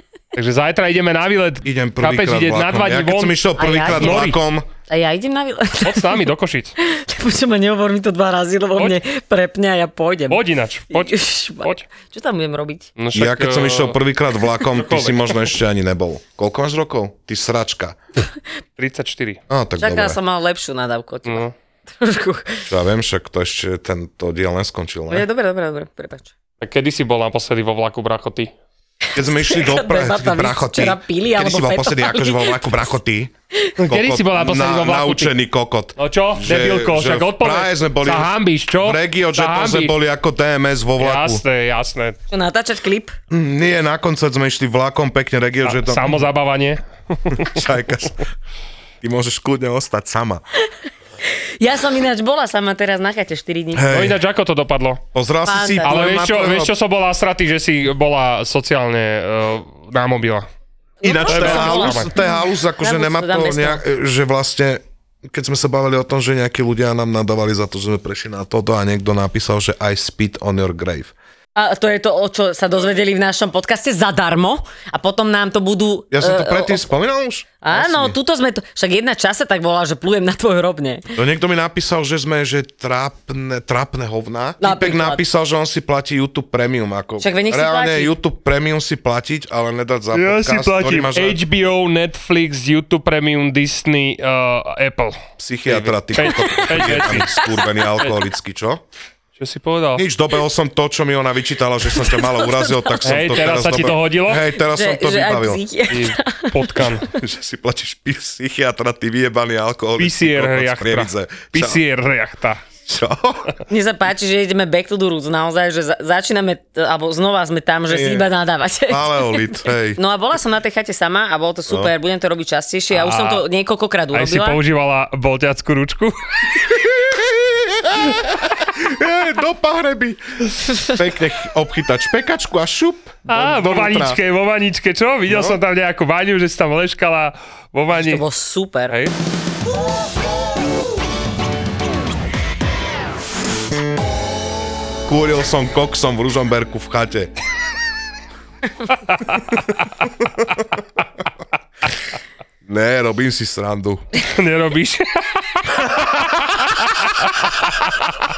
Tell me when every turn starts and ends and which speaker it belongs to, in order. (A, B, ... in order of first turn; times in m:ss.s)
0:00.3-0:04.4 A
0:01.6-0:04.7 B
0:03.6-0:04.2 C
0:04.9-0:06.2 C
0:05.8-0:06.8 A
0:06.8-0:12.9 C
0:10.3-0:11.9 A
0:13.0-0:15.4 A
0:13.1-0:18.0 B
0:18.8-0:19.4 A
0:19.5-0:20.2 B
0:19.8-0:22.6 C
0:21.2-0:21.5 A
0:22.7-0:25.3 B
0:25.1-0:26.3 C
0:26.6-0:28.5 A
0:29.2-0:41.4 B
0:29.2-0:32.9 C
0:33.8-0:35.4 A
0:36.0-0:39.9 A
0:41.0-0:42.2 A
0:42.3-0:43.1 C
0:43.3-0:46.2 B
0:45.6-0:47.6 A
0:47.3-0:48.3 B
0:49.0-0:50.4 B
0:51.6-0:53.8 C
0:53.7-0:54.2 B
0:53.8-0:55.0 A
0:55.1-0:56.7 B
0:55.4-0:56.0 C
0:55.8-1:00.5 A
1:01.0-1:03.8 C
1:01.0-1:11.1 B
1:01.2-1:02.1 A
1:11.6-1:16.8 C
1:16.1-1:18.2 B
1:17.6-1:21.1 C
1:21.2-1:31.4 B
1:24.6-1:25.2 C
1:27.2-1:28.2 C
1:30.1-1:37.4 A
1:35.4-1:38.8 B
1:36.2-1:37.6 C
1:39.4-1:40.0 A
1:40.0-1:45.6 B
1:41.9-1:43.6 C
1:43.0-1:44.5 A
1:44.6-1:47.1 C
1:45.9-1:47.1 A
1:47.1-1:51.8 B
1:50.0-1:52.6 A
1:52.9-1:53.6 B
1:53.7-2:04.6 C
1:57.9-1:58.3 B
1:58.9-2:00.0 B
2:02.9-2:03.4 A
2:04.1-2:06.5 A
2:06.7-2:14.2 B
2:13.3-2:18.2 A
2:15.3-2:15.6 B
2:17.9-2:19.0 C
2:25.1-2:27.3 B
2:29.1-2:29.4 A
2:32.7-2:34.0 B
2:34.3-2:35.8 A
2:35.9-2:36.3 B
2:36.6-2:37.5 A